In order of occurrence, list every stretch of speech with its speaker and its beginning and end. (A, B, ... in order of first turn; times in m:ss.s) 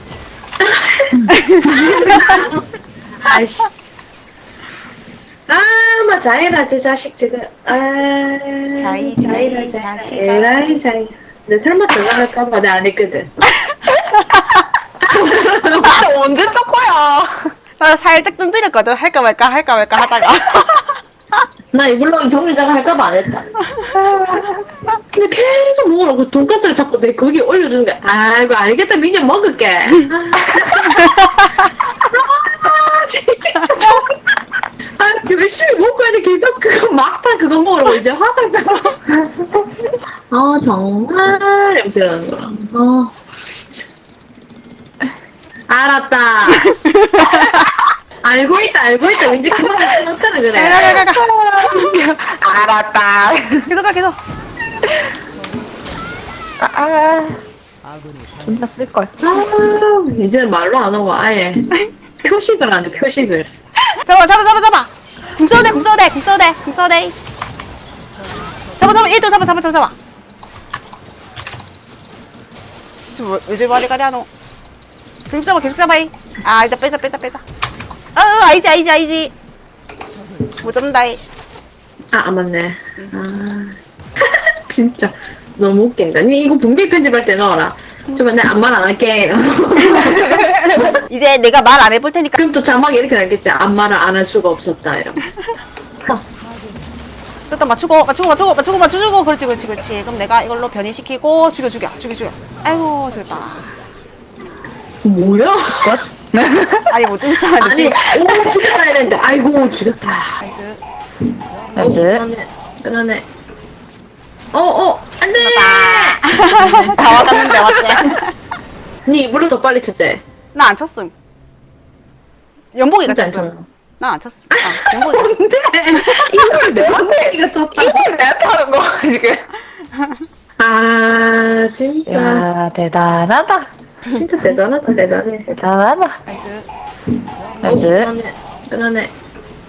0:00.6-0:03.7 A
0:01.3-0:02.4 B
0:05.5-0:13.3 A
0:08.7-0:10.8 B
0:13.5-0:14.6 B
0:15.1-0:16.0 A
0:15.7-0:17.5 C
0:17.8-0:21.4 B
0:21.7-0:23.5 A
0:24.0-0:24.5 C
0:25.1-0:31.2 A
0:30.9-0:31.7 B
0:32.0-0:34.4 A
0:35.0-0:39.0 A
0:40.3-0:43.9 A
0:45.7-0:46.7 A
0:46.5-0:47.7 B
0:47.3-0:47.7 A
0:48.2-0:51.0 A
0:50.5-0:51.3 B
0:50.8-0:53.7 C
0:53.7-0:54.2 B
0:56.6-0:57.4 C
0:58.4-0:59.1 C
0:59.2-1:01.7 A
1:02.2-1:03.5 A
1:04.0-1:07.1 B
1:08.8-1:09.9 B
1:13.1-1:14.3 B
1:15.3-1:17.4 B
1:18.2-1:19.3 B
1:20.6-1:21.2 B
1:22.1-1:31.0 A
1:29.8-1:32.4 B
1:32.4-1:35.3 A
1:37.5-1:43.7 B
1:45.0-1:46.0 A
1:45.8-1:46.9 C
1:46.9-1:48.1 B
1:47.6-1:50.4 A
1:50.4-1:50.8 B
1:51.8-1:52.2 C
1:51.8-1:53.2 A
1:54.5-1:57.0 A
1:55.3-1:58.3 B
1:59.0-2:00.2 A
2:00.5-2:01.1 B
2:02.7-2:05.4 B
2:03.0-2:03.6 A
2:04.6-2:08.0 A
2:05.9-2:06.3 B
2:06.6-2:09.4 C
2:09.9-2:10.2 B
2:10.6-2:12.5 A
2:12.1-2:13.7 C
2:14.1-2:15.5 A
2:15.5-2:16.2 C
2:16.2-2:16.7 B
2:17.6-2:18.1 C
2:17.6-2:19.1 A